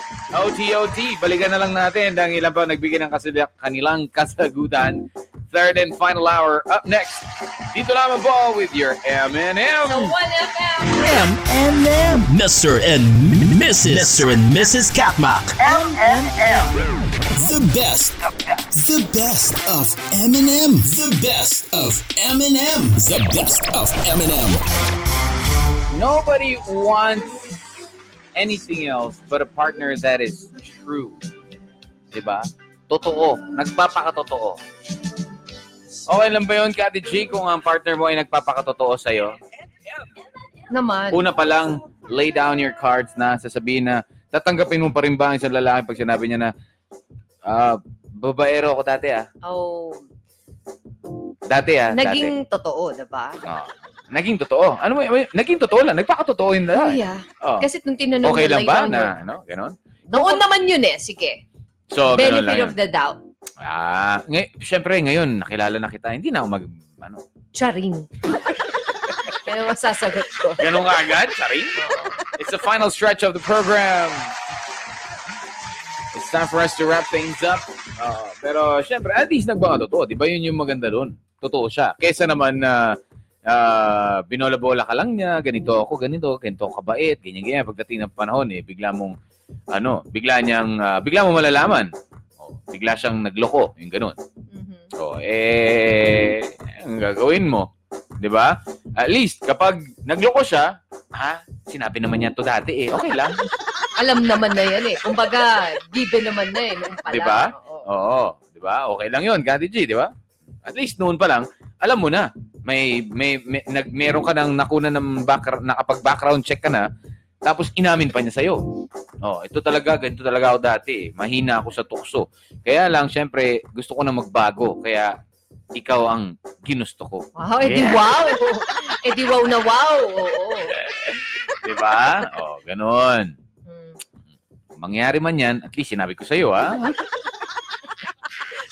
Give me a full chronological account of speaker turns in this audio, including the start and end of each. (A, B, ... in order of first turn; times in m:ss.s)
0:00.3-0:10.1 A
0:09.8-0:11.2 B
0:10.9-0:18.2 C
0:18.7-0:24.6 C
0:25.9-0:27.5 A
0:28.4-0:31.2 A
0:32.1-0:34.6 A
0:36.1-0:39.4 A
0:40.7-0:41.2 B
0:41.1-0:46.5 A
0:47.4-0:49.2 A
0:49.4-0:50.0 B
0:51.5-0:52.3 A
0:51.9-0:53.4 B
0:53.4-0:57.7 A
0:56.7-0:59.1 B
0:58.2-1:00.4 A
1:00.1-1:01.4 B
1:01.9-1:02.7 A
1:02.1-1:03.2 B
1:03.6-1:07.2 A
1:07.5-1:08.1 B
1:09.4-1:10.7 B
1:10.6-1:14.3 A
1:11.8-1:12.2 B
1:16.1-1:29.2 A
1:29.7-1:34.2 A
1:34.5-1:34.9 B
1:35.0-1:43.5 A
1:44.0-1:47.9 B
1:47.1-1:50.1 A
1:50.6-1:56.9 A
1:57.4-1:58.6 A
1:59.2-2:05.2 A
2:05.7-2:08.3 A
2:07.4-2:10.8 B
2:10.7-2:13.3 A
2:13.7-2:14.0 B
2:14.7-2:17.0 A